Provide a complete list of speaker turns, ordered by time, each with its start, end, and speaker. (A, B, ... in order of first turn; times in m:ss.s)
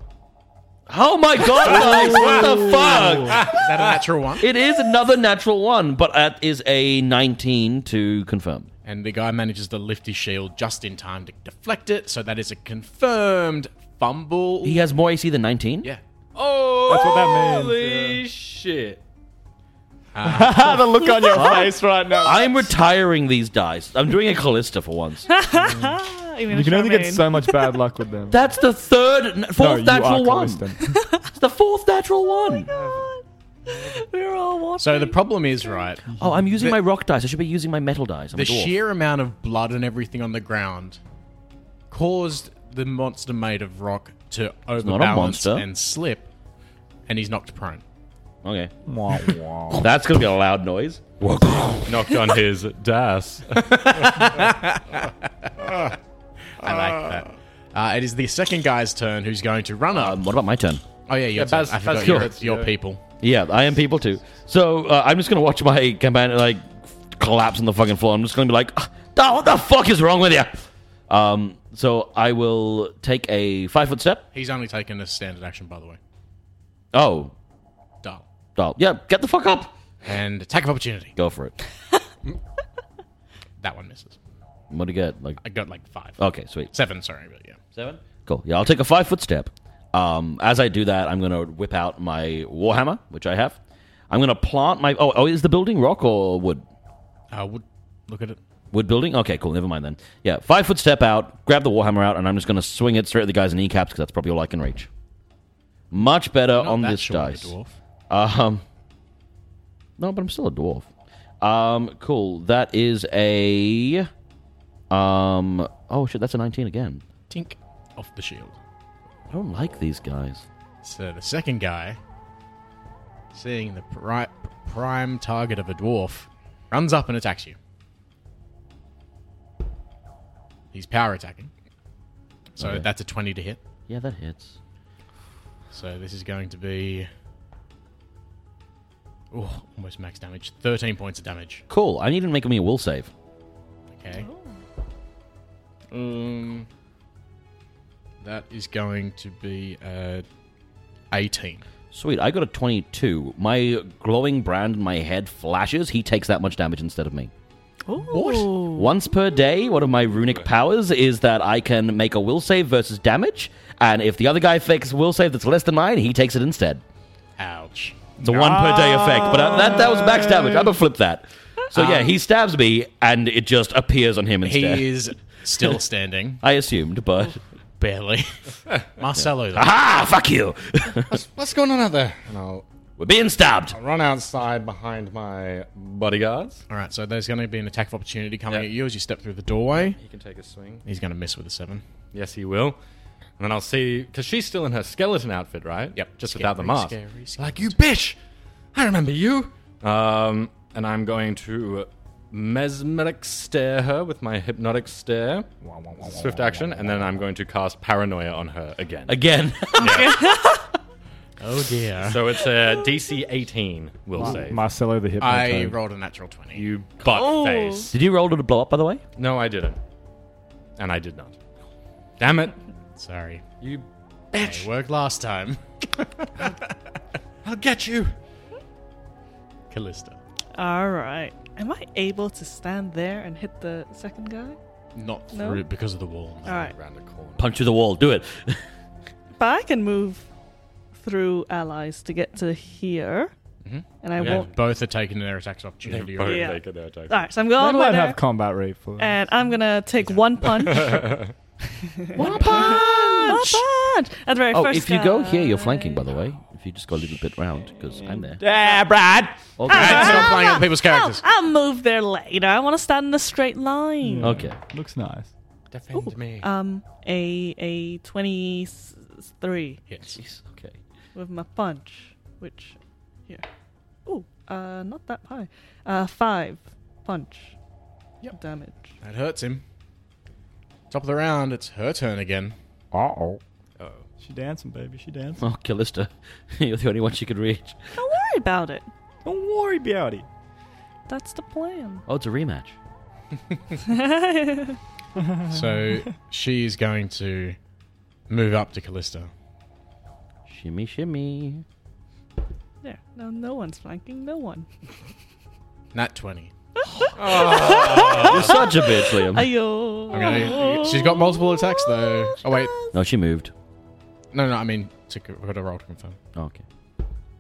0:00.9-0:03.6 A
0:02.0-0:03.4 B
0:02.0-0:02.7 C
0:03.4-0:04.5 D
0:04.4-0:08.7 A
0:08.8-0:14.8 D
0:14.6-0:15.9 A
0:16.4-0:19.0 C
0:16.9-0:18.2 B
0:20.1-0:20.9 D
0:20.2-0:22.7 B
0:21.1-0:21.7 E
0:21.3-0:25.3 A
0:25.3-0:27.7 E
0:25.6-0:28.4 B
0:28.3-0:30.7 A
0:29.6-0:31.0 B
0:30.9-0:31.2 E
0:31.2-0:32.7 A
0:32.3-0:35.9 E
0:32.7-0:33.1 C
0:34.8-0:36.8 D
0:36.2-0:38.8 A
0:38.3-0:41.0 D
0:41.9-0:46.3 D
0:44.8-0:45.7 A
0:47.1-0:47.8 D
0:48.4-0:48.7 A
0:48.9-0:49.9 B
0:49.3-0:52.3 A
0:51.8-0:54.5 C
0:54.1-0:55.1 D
0:55.6-0:55.9 C
0:56.6-1:00.2 D
0:56.6-0:57.2 C
0:59.9-1:00.8 A
1:01.1-1:03.0 D
1:01.3-1:02.7 C
1:02.0-1:02.3 A
1:03.2-1:14.2 A
1:14.3-1:16.0 D
1:16.9-1:17.3 A
1:18.6-1:19.7 A
1:20.0-1:21.2 D
1:21.2-1:21.6 A
1:23.6-1:24.2 D
1:24.7-1:25.4 A
1:25.4-1:27.6 D
1:26.2-1:26.7 A
1:27.8-1:33.6 A
1:34.1-1:36.7 A
1:37.3-1:38.4 D
1:38.7-1:44.9 A
1:45.9-1:47.5 A
1:46.5-1:47.8 D
1:48.1-1:48.6 A
1:50.0-1:50.9 A
1:51.4-1:54.1 A
1:54.9-1:57.0 A
1:57.3-1:58.6 D
1:59.3-2:00.4 A
2:00.8-2:02.0 D
2:03.3-2:07.6 D
2:10.7-2:11.5 D
2:12.6-2:13.6 D
2:12.6-2:12.9 A
2:13.9-2:14.6 A
2:15.7-2:17.1 D
2:19.3-2:21.6 D
2:21.7-2:23.1 A
2:23.9-2:24.3 D
2:24.2-2:24.6 E
2:25.9-2:26.7 C
2:28.2-2:30.2 D
2:31.1-2:31.6 D
2:31.9-2:37.3 A
2:37.9-2:38.9 E
2:38.0-2:38.5 D
2:38.7-2:46.8 A
2:47.4-2:48.1 D
2:48.2-2:54.9 A
2:48.3-2:50.7 B
2:51.7-2:52.1 D
2:54.4-2:56.4 D
2:56.4-2:57.4 A
2:57.8-2:58.4 D
2:59.0-2:59.7 D
2:59.5-3:01.2 A
3:01.1-3:02.6 C
3:03.0-3:03.8 A
3:03.7-3:06.6 C
3:06.7-3:10.0 D
3:09.8-3:10.8 C
3:10.8-3:11.8 D
3:12.1-3:12.8 C
3:13.4-3:18.2 C
3:16.0-3:17.8 D
3:18.7-3:30.2 C
3:25.6-3:27.0 B
3:29.1-3:30.2 A
3:29.8-3:30.7 E
3:31.4-3:32.2 D
3:32.0-3:34.6 C
3:34.2-3:35.8 B
3:35.2-3:36.7 D
3:36.5-3:38.0 C
3:37.0-3:37.9 E
3:37.9-3:39.0 A
3:39.2-3:39.8 C
3:40.8-3:41.4 C
3:42.2-3:42.6 C
3:43.0-3:43.4 D
3:43.6-3:44.7 C
3:44.4-3:45.6 D
3:47.4-3:48.2 C
3:49.7-3:50.2 D
3:50.5-3:54.6 E
3:55.0-3:56.7 D
3:55.3-3:55.6 E
3:56.5-3:56.7 E
3:56.5-3:57.6 C
3:57.4-3:58.6 A
3:59.4-4:00.3 E
4:01.0-4:03.3 E
4:03.6-4:06.5 D
4:04.0-4:04.5 E
4:04.2-4:04.5 C
4:05.8-4:07.2 C
4:06.2-4:08.2 E
4:07.5-4:09.2 B
4:09.0-4:11.2 E
4:10.4-4:11.3 C
4:11.8-4:16.0 E
4:12.2-4:13.6 A
4:14.5-4:18.4 A
4:18.2-4:20.1 B
4:18.5-4:18.8 E
4:19.6-4:20.4 A
4:19.7-4:24.4 E
4:19.7-4:21.2 D
4:24.0-4:25.3 B
4:24.2-4:24.6 A
4:25.7-4:26.5 C
4:25.9-4:29.8 E
4:29.9-4:30.2 D
4:30.2-4:30.8 A
4:31.2-4:33.5 E
4:34.1-4:37.6 E
4:38.3-4:39.0 E
4:39.0-4:39.6 D
4:40.9-4:42.6 D
4:42.9-4:43.4 B
4:43.8-4:44.0 C
4:44.2-4:45.4 B
4:45.4-4:47.9 A
4:48.0-4:48.9 E
4:49.2-4:50.3 B
4:51.1-4:52.0 E
4:52.1-4:52.8 A
4:53.8-4:54.8 E
4:55.2-4:55.6 B
4:55.5-4:57.6 D
4:58.3-4:59.3 D
5:00.5-5:01.6 A
5:02.8-5:04.7 E
5:05.9-5:06.5 D
5:06.8-5:12.9 E
5:07.2-5:08.7 C
5:07.6-5:09.6 A
5:10.1-5:12.7 D
5:12.9-5:13.5 A
5:14.3-5:16.2 D
5:16.4-5:16.6 A